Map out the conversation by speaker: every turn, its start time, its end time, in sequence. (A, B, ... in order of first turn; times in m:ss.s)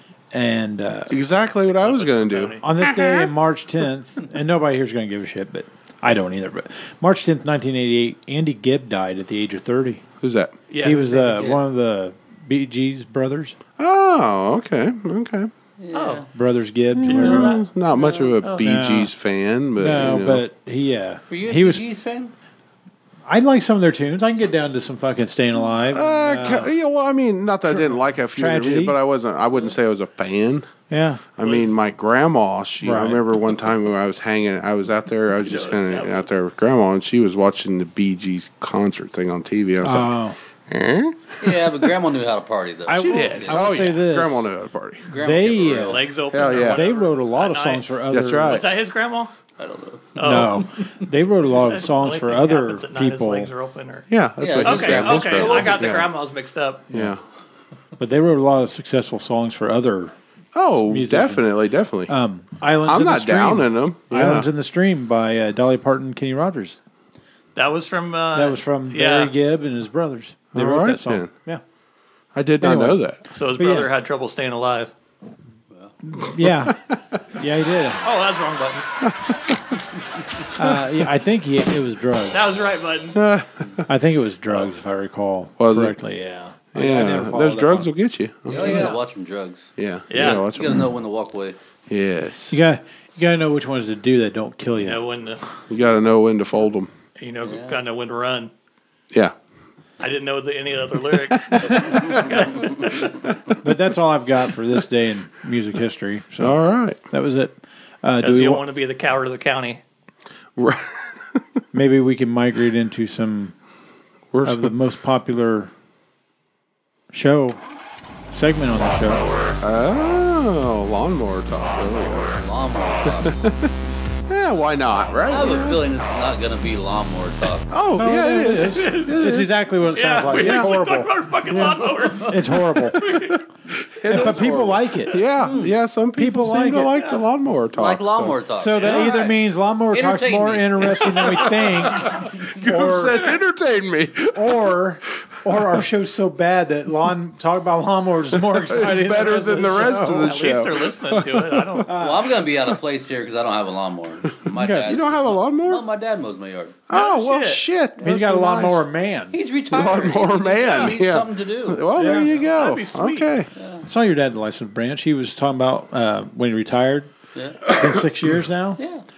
0:00.3-0:01.2 A
0:01.1-0:02.6 B
0:01.4-0:02.6 C
0:02.6-0:10.0 A
0:10.2-0:10.5 B
0:10.7-0:11.6 C
0:10.8-0:13.6 A
0:11.4-0:11.6 D
0:13.8-0:15.5 B
0:15.8-0:16.3 D
0:15.9-0:16.2 C
0:16.3-0:17.6 A
0:17.0-0:20.4 B
0:17.0-0:17.6 C
0:17.9-0:18.3 D
0:18.6-0:19.1 A
0:19.8-0:21.8 A
0:21.3-0:22.3 D
0:23.3-0:26.7 A
0:25.9-0:30.6 B
0:27.7-0:29.0 A
0:30.9-0:31.3 A
0:31.4-0:40.1 B
0:31.4-0:31.7 C
0:32.8-0:33.2 A
0:35.4-0:36.3 C
0:39.8-0:40.4 A
0:40.7-0:41.9 B
0:41.4-0:43.8 D
0:42.9-0:44.5 A
0:42.9-0:45.0 B
0:45.1-0:46.0 D
0:45.2-0:46.0 A
0:45.6-0:47.9 C
0:46.3-0:46.8 B
0:46.5-0:48.6 A
0:48.1-0:48.6 B
0:48.4-0:49.3 C
0:49.6-0:50.5 D
0:50.1-0:50.7 C
0:50.2-0:53.5 A
0:51.4-0:54.1 C
0:54.1-0:56.1 B
0:54.4-0:56.1 D
0:54.6-0:56.9 C
0:56.9-0:57.2 B
0:58.0-1:00.1 A
1:00.5-1:02.1 B
1:00.7-1:01.5 A
1:02.1-1:06.8 A
1:02.8-1:04.5 B
1:07.5-1:09.3 C
1:08.3-1:11.6 A
1:10.5-1:11.3 B
1:12.3-1:13.2 B
1:12.6-1:13.0 A
1:13.3-1:14.9 C
1:13.5-1:13.9 A
1:16.0-1:18.0 A
1:18.0-1:18.8 C
1:19.0-1:19.4 B
1:20.6-1:22.4 A
1:20.6-1:21.0 B
1:22.3-1:23.2 C
1:23.1-1:23.8 B
1:23.9-1:27.9 A
1:25.6-1:26.0 B
1:26.2-1:26.5 C
1:26.7-1:28.9 B
1:28.5-1:31.6 D
1:28.5-1:29.0 C
1:29.8-1:30.9 B
1:30.1-1:30.4 C
1:31.9-1:32.6 B
1:32.5-1:35.0 A
1:34.8-1:35.4 C
1:35.7-1:36.9 B
1:37.2-1:38.5 C
1:37.4-1:37.8 D
1:40.0-1:43.2 C
1:41.3-1:42.3 B
1:43.6-1:46.6 A
1:46.4-1:47.0 B
1:47.1-1:48.6 A
1:48.2-1:49.8 C
1:50.6-1:51.4 B
1:51.7-1:53.5 A
1:54.3-1:54.7 B
1:54.4-1:55.7 A
1:57.1-1:57.6 A
1:58.3-1:59.2 A
1:59.6-2:02.3 B
2:02.2-2:03.4 D
2:03.0-2:03.7 B
2:04.3-2:05.8 B
2:05.3-2:07.7 D
2:07.7-2:09.6 B
2:08.0-2:11.1 A
2:08.7-2:09.2 C
2:09.9-2:13.4 C
2:10.3-2:10.8 B
2:11.5-2:19.2 B
2:12.3-2:13.0 A
2:14.1-2:15.2 A
2:15.4-2:15.7 D
2:16.2-2:16.9 A
2:17.7-2:19.4 D
2:18.6-2:23.2 A
2:19.9-2:22.5 D
2:21.8-2:24.7 B
2:24.3-2:30.3 A
2:28.3-2:31.9 B
2:30.1-2:31.9 C
2:31.9-2:32.2 A
2:31.9-2:36.8 D
2:34.6-2:34.9 A
2:34.7-2:35.8 B
2:36.9-2:38.8 B
2:36.9-2:37.6 C
2:38.0-2:39.4 A
2:39.3-2:41.8 D
2:39.7-2:43.5 B
2:40.6-2:40.9 C
2:42.0-2:43.3 C
2:43.6-2:43.8 D
2:43.8-2:47.1 A
2:47.3-2:47.8 D
2:47.7-2:48.8 A
2:48.8-2:49.0 D